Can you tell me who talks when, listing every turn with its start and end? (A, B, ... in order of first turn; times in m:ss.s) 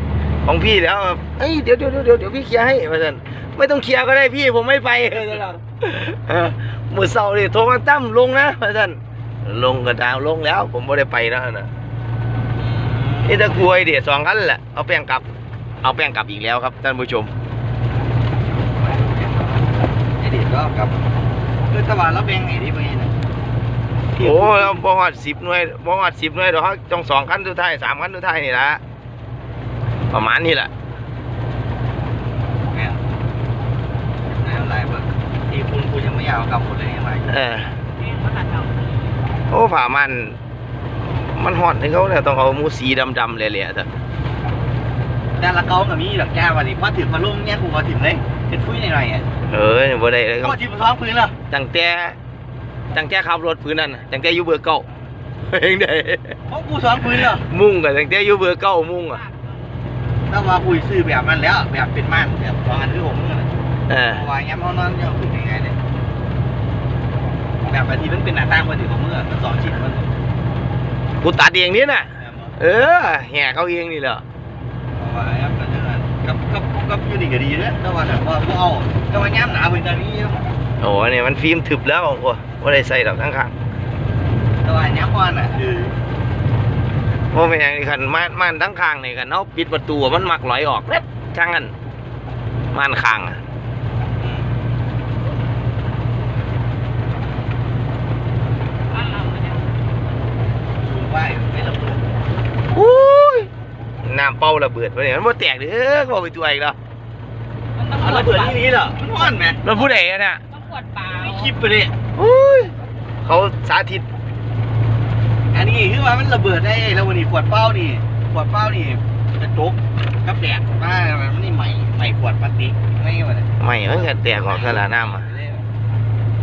0:00.4-0:11.7 A
0:12.6-0:13.7 B
0:13.2-0:15.2 A
0:15.8-0:17.3 A
0:18.8-0:21.1 B
0:21.7-0:23.1 B
0:24.1-0:24.8 B
0:24.2-0:28.8 A
0:30.1-0:30.7 A
0:32.7-0:33.0 B
0:34.3-0:37.6 B
0:37.3-0:37.7 A
0:38.0-0:39.2 C
0:39.5-0:40.4 A
0:41.4-0:43.9 A
0:45.4-0:49.3 B
0:49.5-0:50.6 A
0:50.4-0:51.3 B
0:51.5-0:52.2 A
0:52.9-0:54.8 A
0:55.4-0:56.4 A
0:56.5-0:57.4 B
0:57.4-0:59.2 A
0:59.1-0:59.8 C
1:00.3-1:03.5 B
1:03.9-1:04.2 A
1:04.1-1:05.8 B
1:07.6-1:10.1 B
1:11.2-1:14.2 A
1:12.2-1:12.6 B
1:15.0-1:20.4 B
1:20.8-1:23.5 A
1:24.6-1:26.0 B
1:27.3-1:31.7 A
1:32.7-1:33.4 A
1:34.2-1:34.5 B
1:38.9-1:39.7 C
1:40.8-1:42.0 B
1:42.7-1:43.5 A
1:44.0-1:46.8 A
1:47.8-1:49.9 C
1:48.0-1:49.6 B
1:49.6-1:50.4 A
1:50.5-1:51.5 C
1:51.1-1:51.9 B
1:52.2-1:52.7 A
1:53.2-1:54.0 A
1:55.5-2:05.7 B
2:03.6-2:05.3 A